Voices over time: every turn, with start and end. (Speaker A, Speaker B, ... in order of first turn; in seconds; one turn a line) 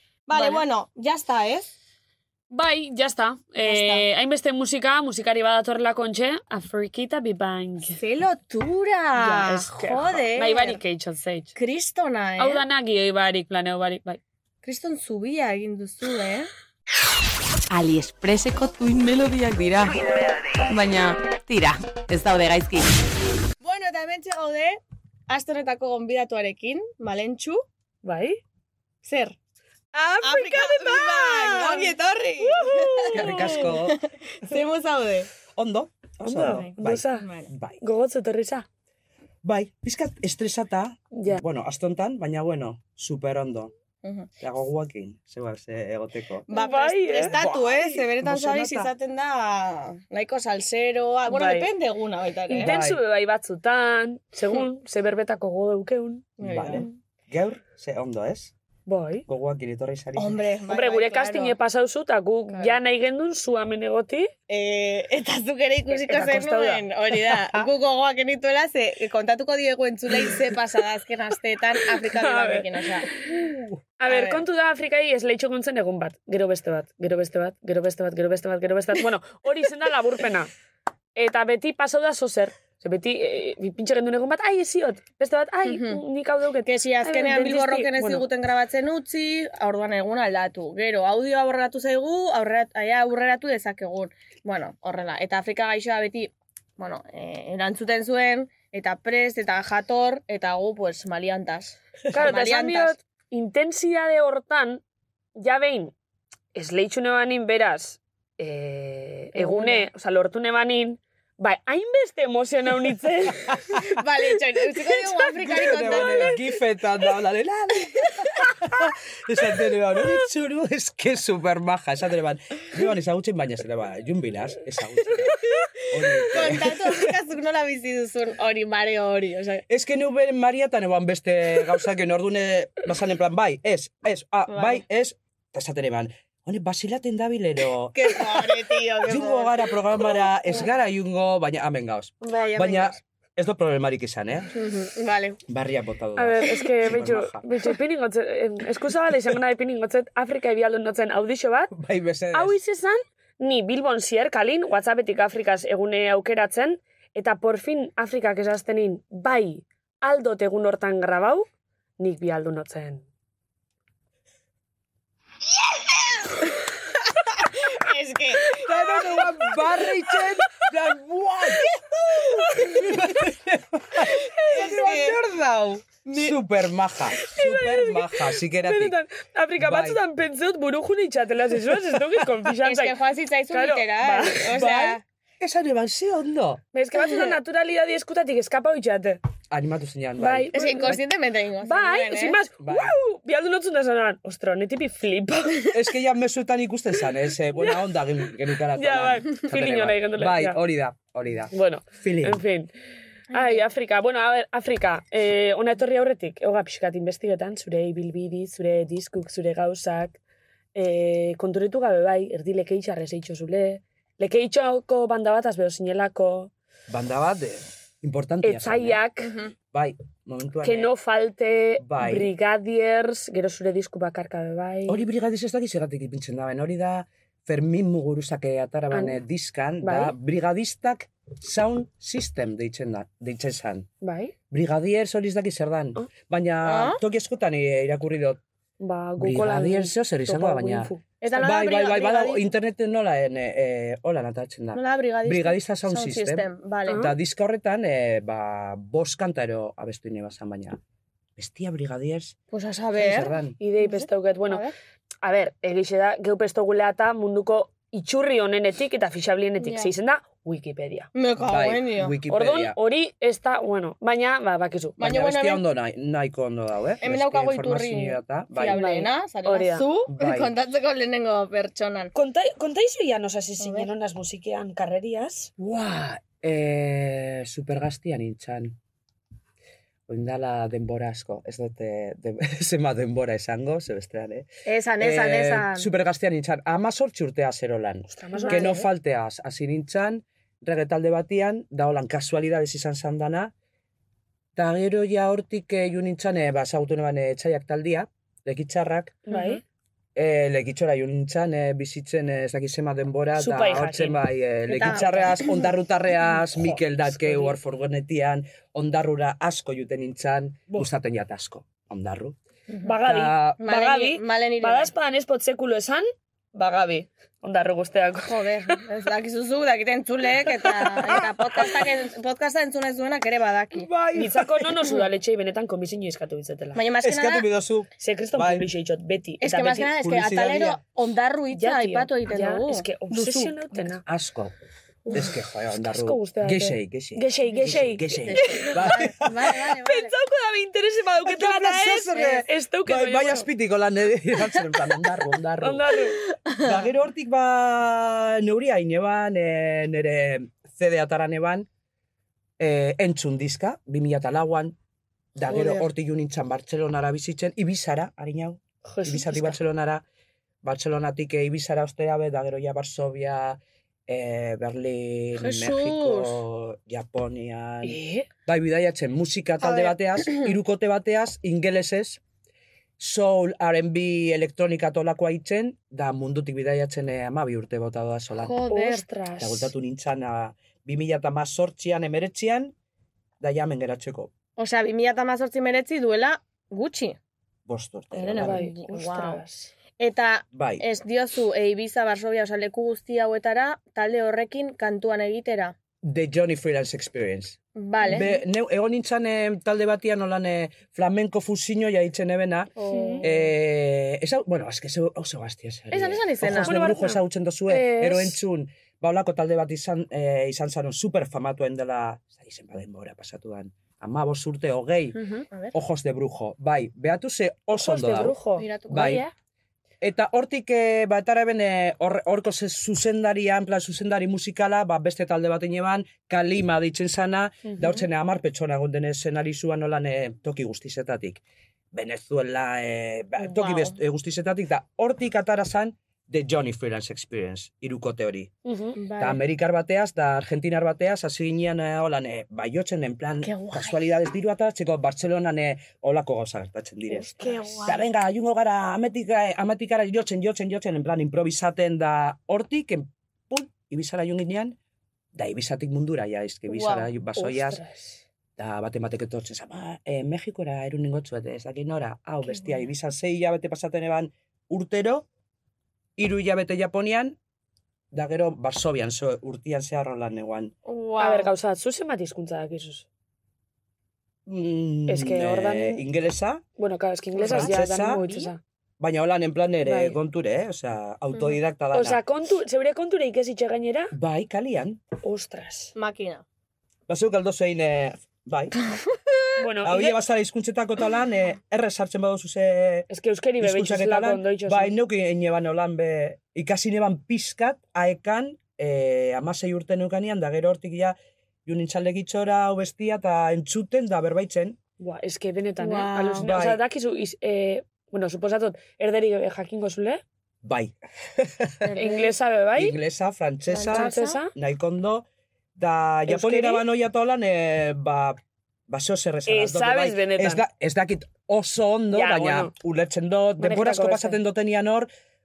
Speaker A: 0.3-1.7
Speaker B: 0.3-0.6
Speaker B: 2.5-8.0
Speaker A: 3.6-4.0
Speaker A: 8.0-10.8
Speaker B: 9.1-11.5
Speaker A: 11.5-12.6
Speaker B: 12.4-14.2
Speaker A: 14.6-16.5
Speaker C: 17.7-20.1
Speaker C: 20.6-22.9
Speaker A: 23.6-27.6
Speaker B: 28.0-28.4
Speaker A: 29.0-29.4
Speaker B: 29.9-33.7
Speaker A: 30.2-35.3
Speaker D: 33.1-34.0
Speaker D: 35.5-37.8
Speaker B: 36.2-37.2
Speaker A: 36.4-37.5
Speaker B: 37.8-38.6
Speaker D: 39.4-43.7
Speaker B: 41.1-41.4
Speaker A: 44.0-44.3
Speaker D: 44.4-46.5
Speaker A: 46.5-52.7
Speaker B: 46.5-47.5
Speaker D: 47.1-48.9
Speaker B: 51.3-51.7
Speaker B: 52.5-56.3
Speaker D: 52.5-53.0
Speaker A: 56.4-56.9
Speaker D: 56.4-58.5
Speaker B: 58.9-59.2
Speaker D: 59.3-60.4
Speaker A: 60.1-61.5
Speaker B: 60.7-64.3
Speaker A: 62.5-62.8
Speaker A: 64.5-73.1
Speaker B: 65.9-67.6
Speaker B: 72.0-72.7
Speaker B: 74.0-80.5
Speaker A: 74.0-74.4
Speaker B: 81.2-88.2
Speaker A: 85.7-86.0
Speaker A: 86.6-103.0
Speaker B: 102.1-104.8
Speaker B: 105.4-105.9
Speaker B: 106.5-113.7
Speaker A: 109.3-109.9
Speaker A: 113.8-116.4
Speaker D: 115.4-127.1
Speaker B: 115.8-116.2
Speaker A: 118.1-118.5
Speaker A: 125.5-129.6
Speaker D: 129.7-144.5
Speaker A: 134.5-134.8
Speaker A: 137.9-140.7
Speaker A: 142.2-143.0
Speaker A: 144.5-145.4
Speaker D: 145.5-147.4
Speaker B: 146.2-151.7
Speaker D: 151.7-152.6
Speaker B: 152.3-161.5
Speaker B: 162.0-163.1
Speaker A: 167.3-169.3
Speaker D: 168.6-178.9
Speaker A: 172.6-172.9
Speaker A: 174.1-175.2
Speaker A: 176.0-176.4
Speaker B: 177.2-182.9
Speaker D: 179.6-180.0
Speaker D: 181.9-182.2
Speaker A: 182.6-185.0
Speaker B: 183.5-184.5
Speaker D: 184.5-186.6
Speaker B: 186.7-189.2
Speaker D: 189.5-190.9
Speaker B: 190.2-190.9
Speaker A: 190.5-192.4
Speaker B: 191.6-195.7
Speaker D: 192.6-192.9
Speaker D: 195.7-202.4
Speaker B: 198.7-200.6
Speaker B: 201.5-202.7
Speaker B: 203.3-210.2
Speaker A: 203.3-203.6
Speaker B: 210.7-216.5
Speaker D: 216.9-219.0
Speaker B: 218.4-219.3
Speaker A: 219.2-219.5
Speaker D: 219.7-220.9
Speaker B: 220.6-225.0
Speaker D: 221.8-222.3
Speaker D: 224.9-233.9
Speaker B: 228.9-229.2
Speaker B: 229.8-230.1
Speaker B: 234.0-234.3
Speaker D: 234.5-238.4
Speaker A: 236.6-237.0
Speaker B: 238.8-241.0
Speaker D: 239.2-250.8
Speaker A: 241.2-242.4
Speaker A: 244.7-247.1
Speaker D: 251.4-252.3
Speaker A: 252.5-254.7
Speaker D: 252.9-253.6
Speaker B: 253.6-254.6
Speaker B: 255.2-261.1
Speaker A: 259.6-259.9
Speaker A: 261.1-262.1
Speaker D: 261.4-262.8
Speaker B: 262.3-265.0
Speaker A: 265.0-265.6
Speaker D: 265.0-268.8
Speaker A: 267.0-272.1
Speaker B: 268.7-269.9
Speaker D: 270.1-270.5
Speaker B: 272.1-275.5
Speaker A: 273.6-273.9
Speaker D: 275.6-278.8
Speaker D: 280.1-284.5
Speaker A: 284.6-285.9
Speaker D: 285.0-293.5
Speaker B: 288.1-288.9
Speaker A: 288.4-288.7
Speaker D: 294.6-299.2
Speaker B: 299.3-299.6
Speaker D: 300.1-312.4
Speaker B: 303.4-304.2
Speaker A: 304.7-305.5
Speaker B: 304.8-305.4
Speaker B: 306.6-307.6
Speaker B: 312.8-316.1
Speaker D: 313.0-313.6
Speaker A: 313.6-314.9
Speaker A: 316.6-317.1
Speaker B: 317.4-318.8
Speaker A: 318.2-323.9
Speaker D: 321.1-321.8
Speaker D: 323.7-324.7
Speaker B: 324.1-326.8
Speaker A: 326.7-327.4
Speaker D: 327.0-328.7
Speaker B: 328.0-329.9
Speaker A: 329.4-333.6
Speaker D: 329.9-330.8
Speaker B: 331.5-334.0
Speaker D: 334.0-334.5
Speaker D: 335.1-339.6
Speaker B: 335.1-338.9
Speaker A: 338.2-340.1
Speaker B: 339.8-343.5
Speaker D: 341.2-345.9
Speaker B: 345.6-346.2
Speaker D: 346.5-351.7
Speaker D: 352.6-354.7
Speaker D: 355.4-360.0
Speaker A: 355.5-355.8
Speaker B: 358.9-359.6
Speaker D: 360.6-372.2
Speaker A: 365.4-366.4
Speaker B: 367.8-368.3
Speaker A: 369.6-370.5
Speaker D: 373.0-378.7
Speaker B: 378.4-379.7
Speaker A: 378.5-379.0
Speaker D: 379.4-382.7
Speaker D: 383.4-384.3
Speaker A: 384.6-387.2
Speaker D: 387.7-388.6
Speaker A: 388.1-389.4
Speaker B: 388.3-389.7
Speaker A: 390.0-395.7
Speaker D: 390.5-390.8
Speaker D: 396.0-415.2
Speaker A: 397.8-398.3
Speaker B: 398.0-398.3
Speaker A: 402.8-403.5
Speaker B: 402.9-403.2
Speaker A: 405.9-406.8
Speaker B: 406.5-408.4
Speaker A: 415.1-415.7
Speaker D: 415.7-418.4
Speaker B: 417.7-419.3
Speaker A: 418.6-419.2
Speaker D: 418.9-419.2
Speaker D: 420.0-431.4
Speaker B: 427.6-428.0
Speaker D: 431.9-438.5
Speaker A: 433.5-433.9
Speaker B: 438.6-439.0
Speaker A: 439.0-439.4
Speaker D: 439.2-447.3
Speaker A: 443.4-444.0
Speaker A: 447.1-448.0
Speaker B: 447.3-447.9
Speaker D: 447.8-454.8
Speaker D: 455.3-457.8
Speaker A: 456.7-457.1
Speaker B: 457.4-458.2
Speaker D: 458.6-465.2
Speaker A: 462.5-462.8
Speaker D: 466.2-467.4
Speaker D: 468.1-470.7
Speaker A: 470.9-471.5
Speaker B: 471.2-473.1
Speaker D: 474.4-476.6
Speaker B: 475.1-476.0
Speaker B: 476.8-478.6
Speaker A: 477.4-477.7
Speaker D: 477.4-478.3
Speaker D: 479.0-482.2
Speaker B: 479.8-480.1
Speaker B: 481.9-484.1
Speaker D: 484.1-485.0
Speaker B: 485.2-485.9
Speaker A: 485.9-486.4
Speaker D: 487.1-488.8
Speaker B: 489.6-490.2
Speaker D: 489.8-493.1
Speaker B: 493.1-494.9
Speaker D: 493.6-504.8
Speaker B: 505.0-510.2
Speaker A: 505.8-506.5
Speaker D: 506.4-506.8
Speaker D: 510.6-511.9
Speaker A: 511.8-512.3
Speaker B: 511.9-513.0
Speaker D: 512.8-518.4
Speaker A: 513.7-514.4
Speaker B: 513.9-514.5
Speaker B: 516.3-516.8
Speaker D: 518.9-525.1
Speaker B: 519.5-520.6
Speaker B: 522.1-522.7
Speaker B: 523.6-524.4